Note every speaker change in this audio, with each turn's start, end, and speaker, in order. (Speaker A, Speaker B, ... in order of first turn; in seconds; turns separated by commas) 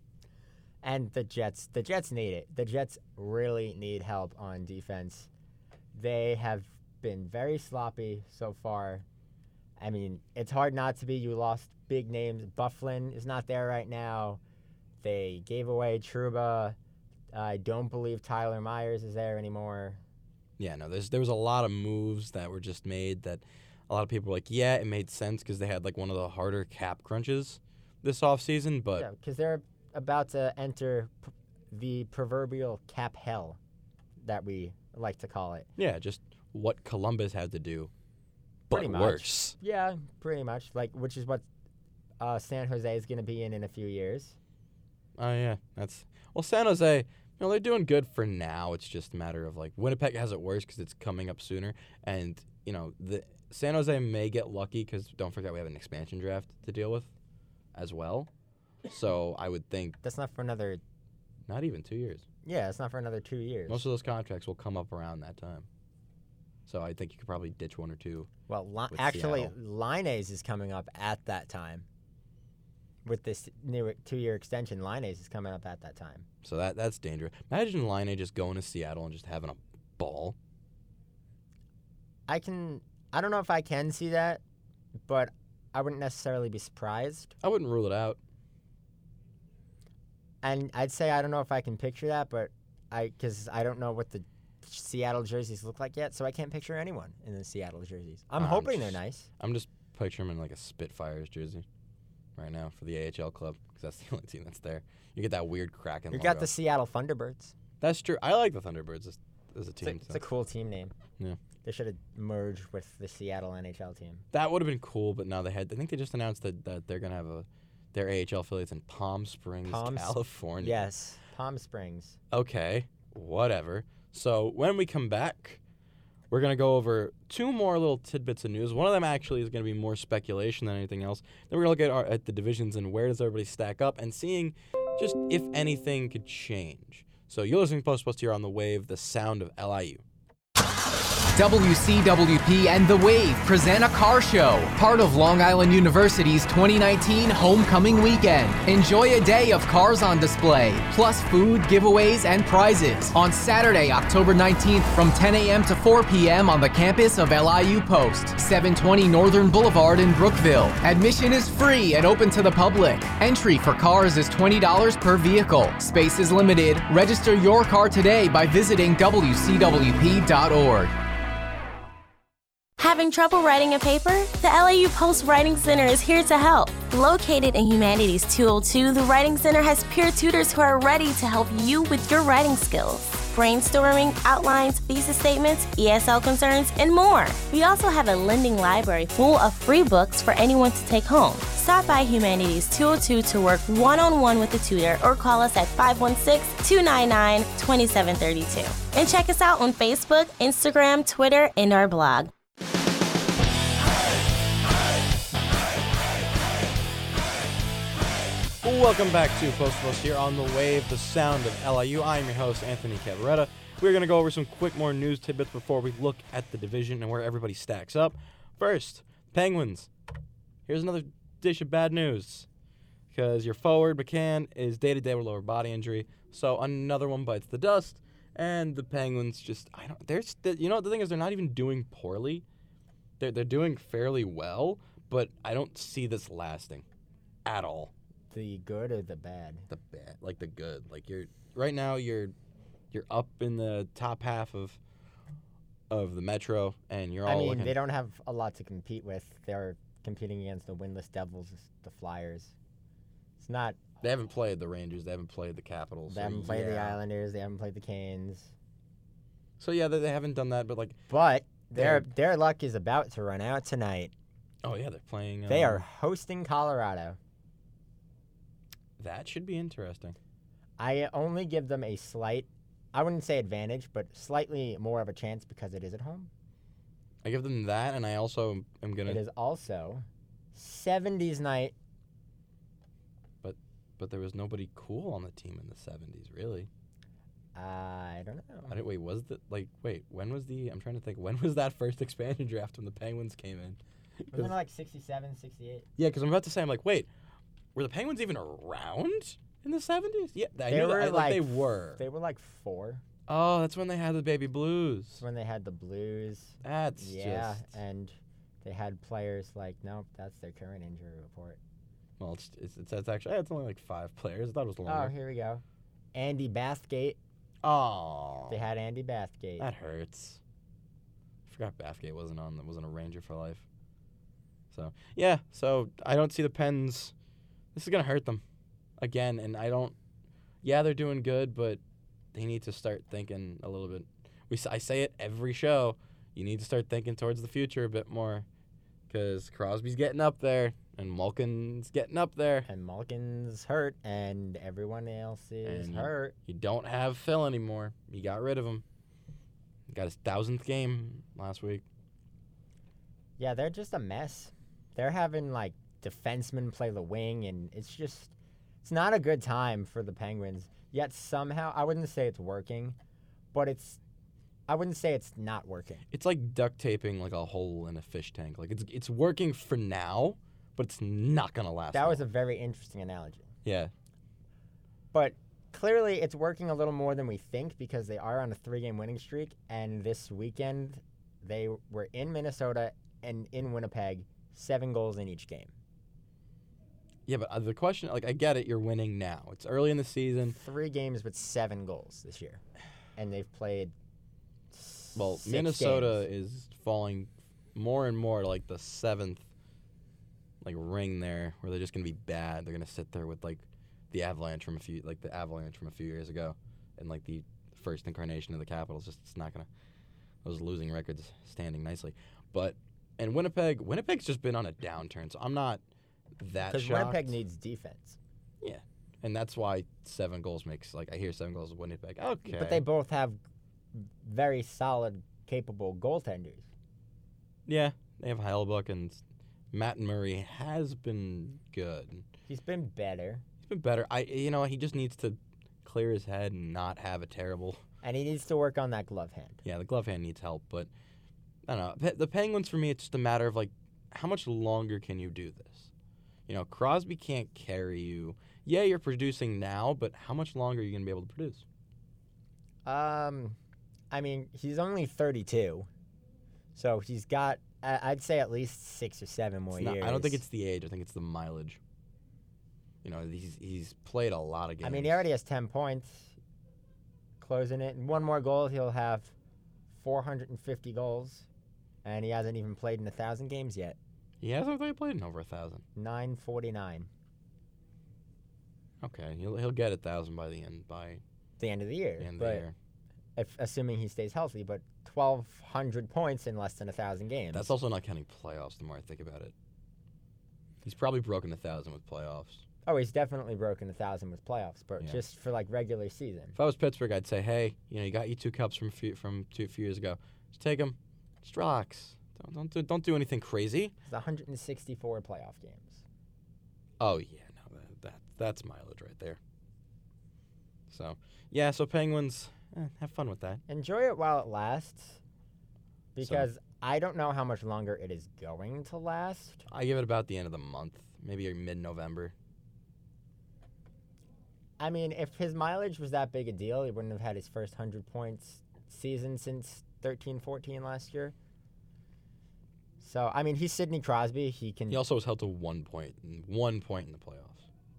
Speaker A: 0.8-5.3, Speaker A: 5.9-9.1, Speaker A: 9.8-14.4, Speaker A: 15.0-16.8, Speaker A: 17.3-20.0, Speaker B: 20.6-29.1, Speaker A: 29.0-33.6, Speaker A: 34.2-35.7, Speaker B: 35.8-37.9, Speaker B: 38.7-39.6, Speaker A: 38.7-41.5, Speaker A: 42.2-44.4, Speaker B: 45.2-57.1, Speaker B: 57.8-58.3, Speaker B: 58.9-60.0, Speaker A: 60.0-60.8, Speaker B: 61.5-62.2, Speaker A: 62.5-63.9, Speaker B: 63.7-65.7, Speaker B: 66.7-68.3, Speaker A: 68.5-71.8, Speaker B: 68.9-69.5, Speaker A: 73.0-76.3, Speaker B: 76.4-80.4, Speaker A: 82.3-84.4, Speaker A: 85.1-87.3, Speaker B: 87.4-88.2, Speaker A: 90.4-99.3, Speaker B: 98.3-101.7, Speaker B: 102.4-106.5, Speaker A: 106.1-107.5, Speaker B: 107.8-110.2, Speaker A: 109.8-110.9, Speaker A: 111.6-114.2, Speaker B: 114.3-120.9, Speaker A: 119.7-122.2, Speaker B: 122.3-125.6, Speaker B: 126.3-140.0, Speaker C: 141.3-170.9, Speaker D: 172.8-202.3, Speaker B: 208.6-219.9, Speaker B: 220.7-222.5, Speaker B: 223.1-232.4, Speaker B: 233.2-236.8, Speaker B: 237.4-237.9, Speaker A: 238.3-239.7, Speaker B: 239.7-242.3, Speaker B: 242.9-244.8, Speaker B: 245.9-247.8, Speaker A: 247.3-252.5, Speaker A: 253.4-253.8, Speaker B: 254.0-257.0, Speaker A: 256.1-258.5, Speaker B: 259.6-261.0, Speaker A: 261.1-264.1, Speaker B: 261.7-262.1, Speaker B: 264.6-265.9, Speaker A: 265.5-267.2, Speaker B: 269.0-270.2, Speaker A: 270.8-276.3, Speaker B: 277.2-279.2, Speaker A: 279.1-281.7, Speaker B: 283.4-286.7, Speaker A: 287.6-288.8, Speaker B: 288.7-294.5, Speaker A: 294.3-295.9, Speaker B: 296.0-297.1, Speaker B: 297.8-302.0, Speaker A: 300.7-303.0, Speaker B: 303.3-305.2, Speaker A: 305.2-311.6, Speaker B: 306.6-307.7, Speaker B: 312.2-315.1, Speaker A: 314.9-315.6, Speaker A: 316.1-317.2, Speaker B: 317.6-318.6, Speaker A: 318.5-319.7, Speaker B: 319.6-320.4, Speaker B: 321.5-323.6, Speaker B: 324.7-327.1, Speaker B: 327.7-328.4, Speaker B: 329.0-329.9, Speaker B: 330.6-331.8, Speaker B: 332.3-338.5, Speaker B: 339.1-342.7, Speaker A: 342.7-346.4, Speaker B: 345.6-348.8, Speaker B: 349.9-351.9, Speaker A: 353.4-363.0, Speaker A: 363.5-364.0, Speaker A: 364.7-366.1, Speaker B: 366.1-372.2, Speaker A: 371.9-373.5, Speaker B: 373.6-373.9, Speaker A: 375.1-385.7, Speaker B: 387.3-390.6, Speaker A: 390.5-392.6, Speaker A: 393.2-393.9, Speaker A: 394.7-396.2, Speaker B: 395.1-399.5, Speaker B: 400.6-409.7, Speaker B: 410.4-415.8, Speaker B: 416.4-417.3, Speaker A: 416.7-418.2, Speaker B: 418.6-422.9, Speaker A: 422.5-423.4, Speaker A: 423.9-426.7, Speaker B: 427.7-432.2, Speaker A: 432.5-433.4, Speaker B: 433.6-437.8, Speaker A: 438.0-439.6, Speaker B: 439.6-440.9, Speaker B: 441.7-445.9, Speaker B: 446.5-451.6, Speaker A: 452.9-453.6, Speaker A: 454.1-455.9, Speaker A: 456.8-460.4, Speaker B: 459.7-461.8, Speaker B: 463.0-465.2, Speaker A: 464.8-466.3, Speaker A: 467.4-469.3, Speaker A: 469.9-471.5, Speaker A: 472.0-474.0, Speaker B: 474.4-475.8, Speaker A: 476.0-477.1, Speaker B: 479.0-481.2, Speaker A: 481.6-482.7, Speaker B: 482.2-482.7, Speaker A: 483.4-487.7, Speaker B: 487.5-489.5, Speaker B: 490.8-492.6, Speaker A: 492.9-496.6, Speaker B: 496.6-503.9, Speaker A: 504.1-506.0, Speaker B: 507.0-509.4, Speaker B: 510.9-513.6, Speaker A: 513.7-515.2, Speaker A: 516.2-519.7, Speaker B: 516.2-516.5, Speaker B: 519.7-522.3, Speaker A: 524.8-531.4, Speaker A: 533.0-535.0, Speaker B: 534.9-537.7